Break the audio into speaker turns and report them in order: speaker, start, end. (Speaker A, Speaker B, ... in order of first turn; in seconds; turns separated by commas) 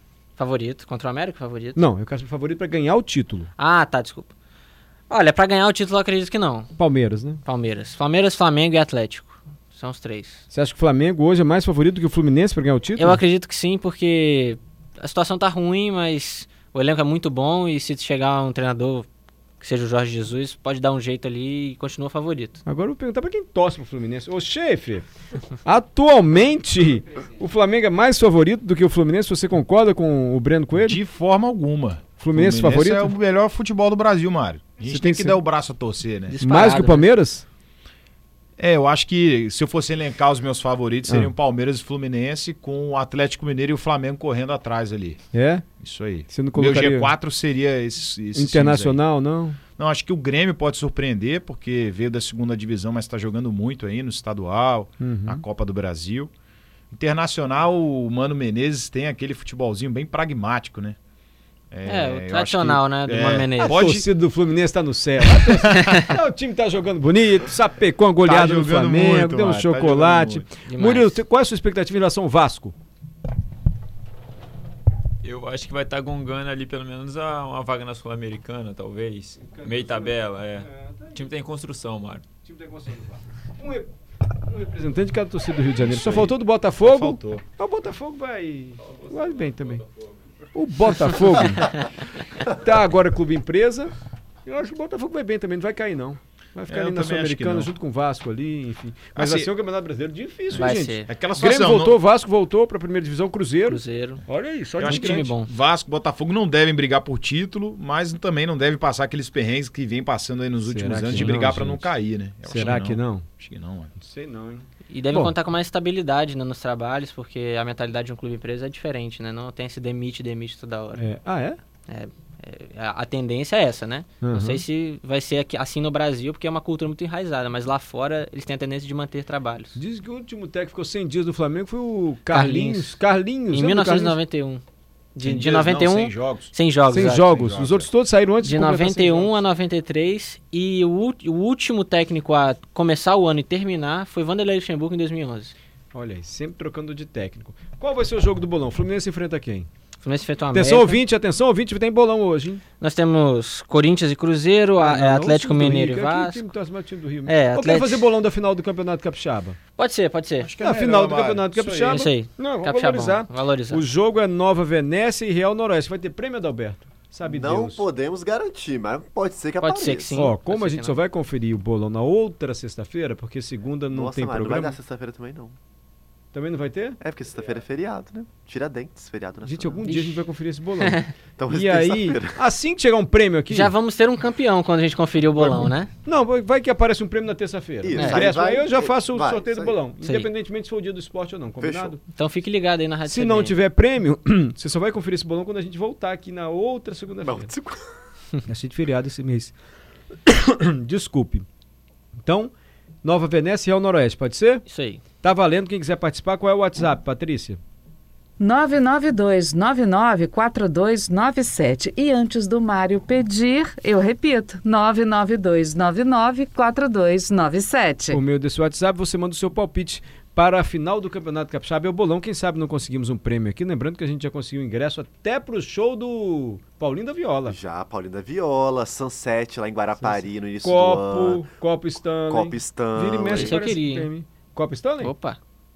Speaker A: 0.4-1.8, Speaker B: 1.7-3.5, Speaker A: 3.6-4.3, Speaker A: 5.1-6.7, Speaker B: 6.8-7.4, Speaker A: 7.4-10.4, Speaker B: 10.5-13.2, Speaker A: 13.0-19.1, Speaker A: 19.6-22.6, Speaker B: 22.6-25.1, Speaker B: 25.6-31.0, Speaker C: 30.8-36.4, Speaker B: 32.2-33.1, Speaker B: 34.8-35.4, Speaker A: 36.3-37.1, Speaker B: 36.4-37.4, Speaker C: 38.6-45.2, Speaker B: 41.1-41.3, Speaker B: 45.3-45.6, Speaker C: 45.8-49.0, Speaker B: 46.3-47.1, Speaker B: 48.3-49.6, Speaker C: 49.8-56.3, Speaker B: 55.0-55.4, Speaker C: 56.9-61.0, Speaker C: 61.7-64.0, Speaker A: 61.9-63.9, Speaker B: 63.6-72.7, Speaker C: 65.4-65.9, Speaker C: 68.2-70.4, Speaker A: 70.7-71.2, Speaker D: 75.2-82.2, Speaker B: 79.4-81.3, Speaker B: 82.4-83.9, Speaker B: 84.5-89.8, Speaker C: 85.8-87.4, Speaker B: 90.5-91.7, Speaker B: 92.5-93.9, Speaker B: 94.5-105.3, Speaker C: 96.7-97.7, Speaker C: 99.2-99.5, Speaker A: 100.5-101.1, Speaker C: 100.6-102.0, Speaker A: 103.7-104.2, Speaker A: 104.8-105.5, Speaker C: 104.8-113.9, Speaker B: 110.6-111.9, Speaker A: 110.8-111.3, Speaker B: 112.4-113.2, Speaker B: 114.0-115.3, Speaker A: 114.9-121.0, Speaker B: 121.0-121.6, Speaker A: 121.9-129.7, Speaker B: 124.2-124.6, Speaker B: 129.7-134.2, Speaker A: 132.3-133.0, Speaker A: 133.5-134.6, Speaker A: 135.1-137.4, Speaker C: 135.2-136.5, Speaker B: 136.9-139.3, Speaker C: 137.2-137.9, Speaker A: 138.4-145.5, Speaker B: 145.9-149.7, Speaker A: 150.0-151.0, Speaker B: 150.5-152.6, Speaker A: 152.8-156.4, Speaker B: 154.8-159.6, Speaker A: 157.2-158.0, Speaker A: 159.8-160.5, Speaker C: 160.4-162.1, Speaker B: 160.6-167.9, Speaker A: 161.8-163.8, Speaker E: 167.2-170.3, Speaker A: 169.6-170.9, Speaker B: 170.1-174.8, Speaker E: 173.9-175.6, Speaker B: 176.3-177.0, Speaker E: 177.0-179.9, Speaker B: 179.4-183.7, Speaker A: 179.8-180.2, Speaker A: 180.8-181.1, Speaker E: 181.4-182.4, Speaker A: 183.5-185.9, Speaker B: 185.4-192.0, Speaker E: 187.8-189.8, Speaker A: 187.9-188.2, Speaker A: 190.0-190.3, Speaker E: 191.6-192.0, Speaker A: 192.1-193.5, Speaker B: 193.1-197.5, Speaker E: 197.2-197.8, Speaker B: 198.4-199.5, Speaker B: 200.2-201.4, Speaker B: 202.2-202.5, Speaker B: 203.0-204.7, Speaker A: 204.7-205.0, Speaker B: 205.2-207.6, Speaker F: 208.4-218.1, Speaker B: 218.1-227.6, Speaker E: 227.4-231.4, Speaker B: 230.0-235.1, Speaker E: 232.3-233.6, Speaker A: 233.3-234.1, Speaker A: 235.0-235.4